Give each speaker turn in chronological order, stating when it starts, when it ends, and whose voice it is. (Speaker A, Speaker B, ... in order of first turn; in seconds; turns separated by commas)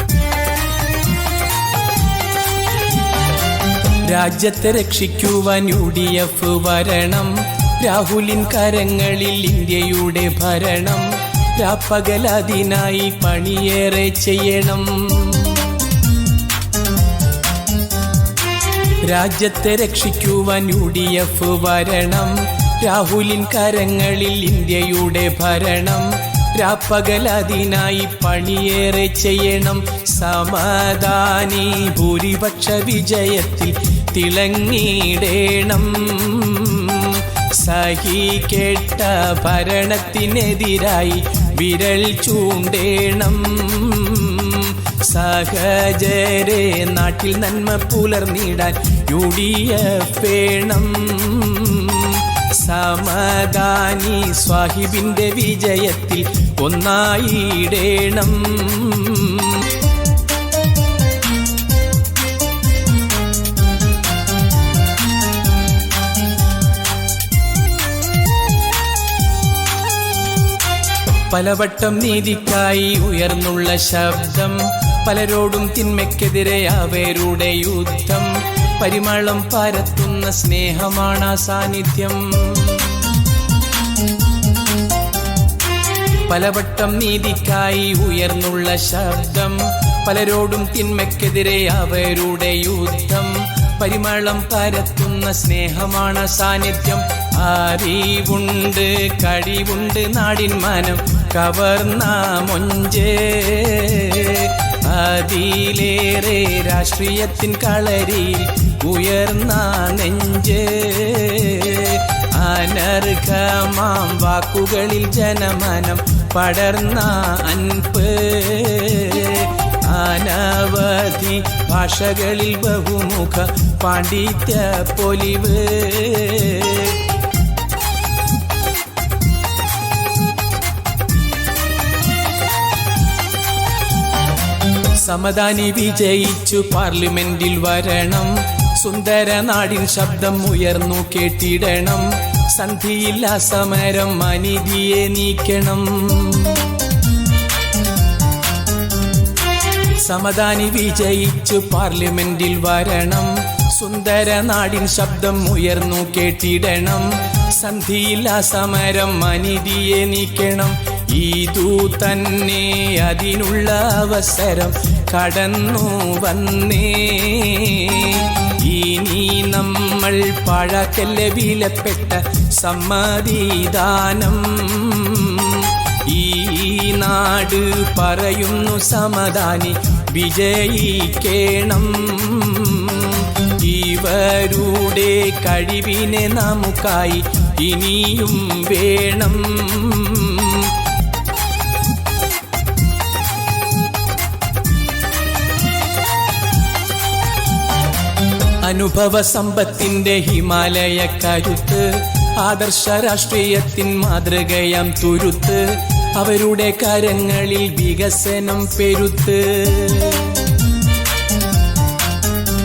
Speaker A: 4.0-15.7, Speaker A: 19.0-59.7, Speaker A: 71.3-83.0, Speaker A: 86.3-127.0, Speaker A: 134.9-146.7, Speaker A: 150.0-190.8, Speaker A: 198.6-210.4